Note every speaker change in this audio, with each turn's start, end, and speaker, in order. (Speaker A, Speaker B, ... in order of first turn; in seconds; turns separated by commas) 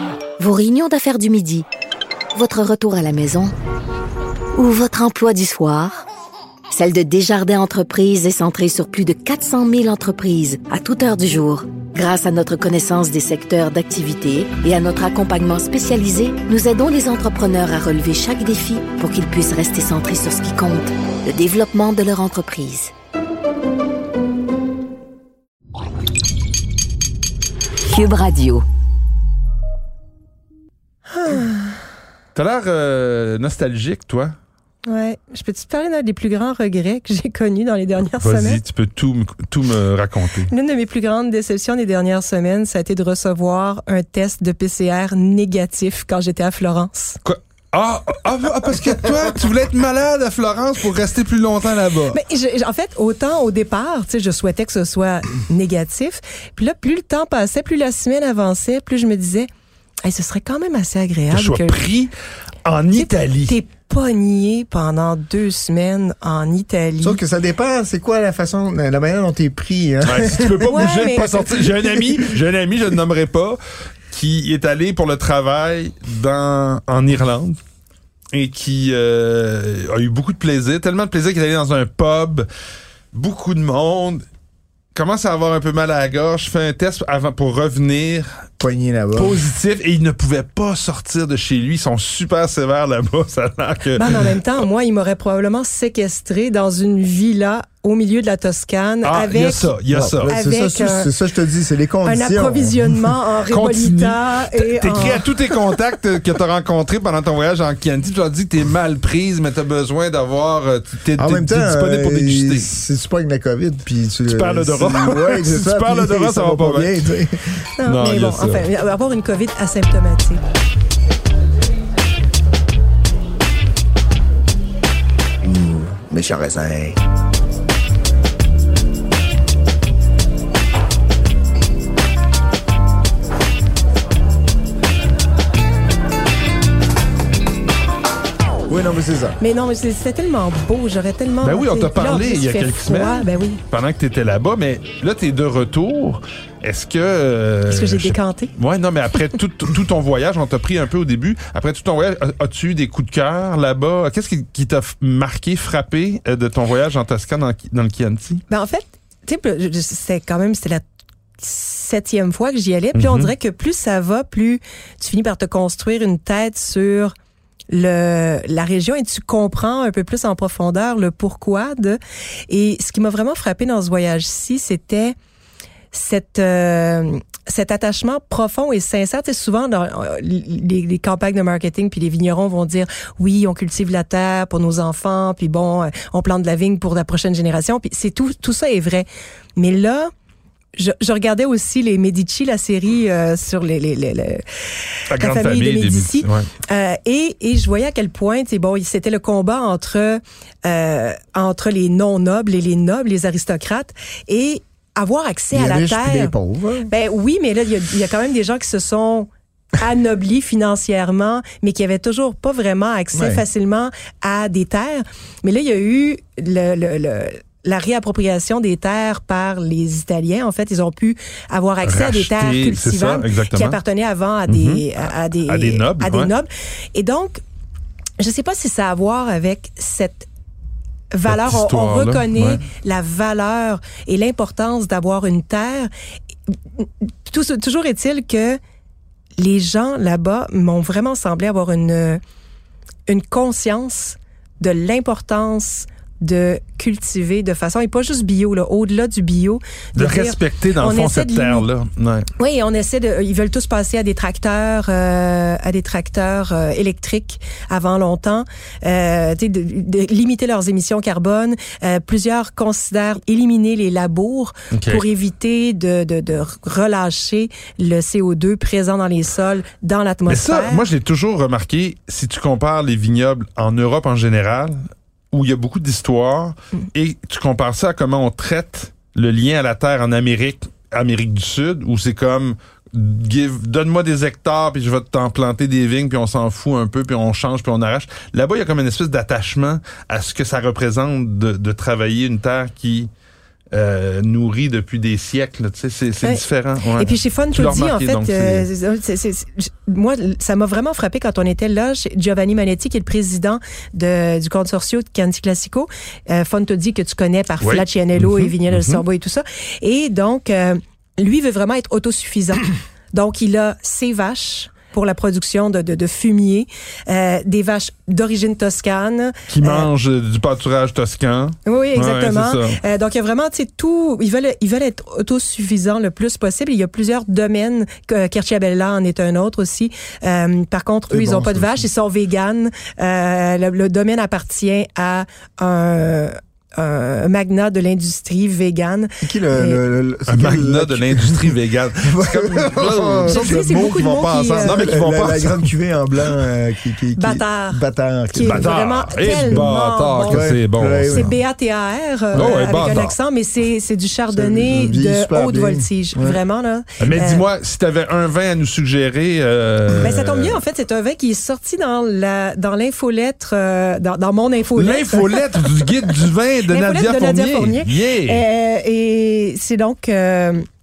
Speaker A: 0.4-1.7, Speaker A: 2.3-3.5, Speaker A: 4.5-6.0, Speaker A: 6.7-22.9, Speaker A: 27.8-28.6, Speaker B: 31.1-31.8, Speaker C: 32.4-34.3, Speaker B: 34.9-38.6, Speaker C: 38.2-40.5, Speaker B: 40.5-47.2, Speaker C: 47.2-52.2, Speaker B: 52.1-59.5, Speaker B: 60.0-61.8, Speaker C: 61.3-62.1, Speaker C: 62.6-63.6, Speaker B: 63.0-67.2, Speaker D: 67.0-72.3, Speaker C: 70.0-73.6, Speaker B: 70.7-71.5, Speaker C: 74.1-77.6, Speaker C: 78.3-82.5, Speaker C: 83.1-84.2, Speaker C: 84.9-88.4, Speaker D: 88.6-89.4, Speaker C: 89.2-94.3, Speaker B: 94.0-99.7, Speaker C: 99.0-100.3, Speaker D: 99.9-103.1, Speaker B: 100.3-101.1, Speaker B: 102.0-105.3, Speaker C: 103.5-112.7, Speaker D: 111.2-117.7, Speaker C: 114.3-117.1, Speaker B: 117.8-120.4, Speaker C: 117.8-118.7, Speaker D: 125.4-127.0, Speaker D: 138.7-139.4, Speaker B: 139.4-143.6, Speaker C: 141.4-158.4, Speaker B: 147.7-148.5, Speaker B: 158.5-160.8, Speaker B: 161.4-167.1, Speaker C: 162.9-163.3, Speaker B: 167.7-175.2, Speaker B: 175.9-190.1, Speaker B: 190.8-194.4, Speaker C: 195.1-196.5, Speaker B: 195.1-206.3, Speaker D: 205.5-206.9, Speaker B: 206.9-227.4, Speaker D: 213.1-213.4, Speaker C: 221.8-223.8, Speaker C: 224.5-224.8, Speaker C: 225.5-226.3, Speaker B: 228.2-230.3, Speaker B: 231.1-235.9, Speaker C: 231.3-232.6, Speaker B: 236.8-238.6, Speaker B: 239.4-242.2, Speaker B: 243.1-251.7, Speaker C: 250.0-252.3, Speaker B: 252.4-270.9, Speaker C: 264.7-265.1, Speaker C: 270.3-293.1, Speaker C: 293.7-298.7, Speaker B: 297.0-319.9, Speaker C: 307.6-309.0, Speaker C: 319.5-322.8, Speaker B: 321.7-339.8, Speaker D: 331.1-331.9, Speaker D: 339.2-349.7, Speaker C: 340.3-345.7, Speaker B: 343.3-345.0, Speaker B: 347.2-350.4, Speaker C: 348.4-351.4, Speaker D: 350.2-351.4, Speaker B: 351.1-357.5, Speaker C: 352.3-353.1, Speaker D: 352.4-353.0, Speaker D: 354.3-356.4, Speaker C: 357.0-360.6, Speaker B: 360.0-365.8, Speaker C: 364.8-368.4, Speaker B: 366.7-370.7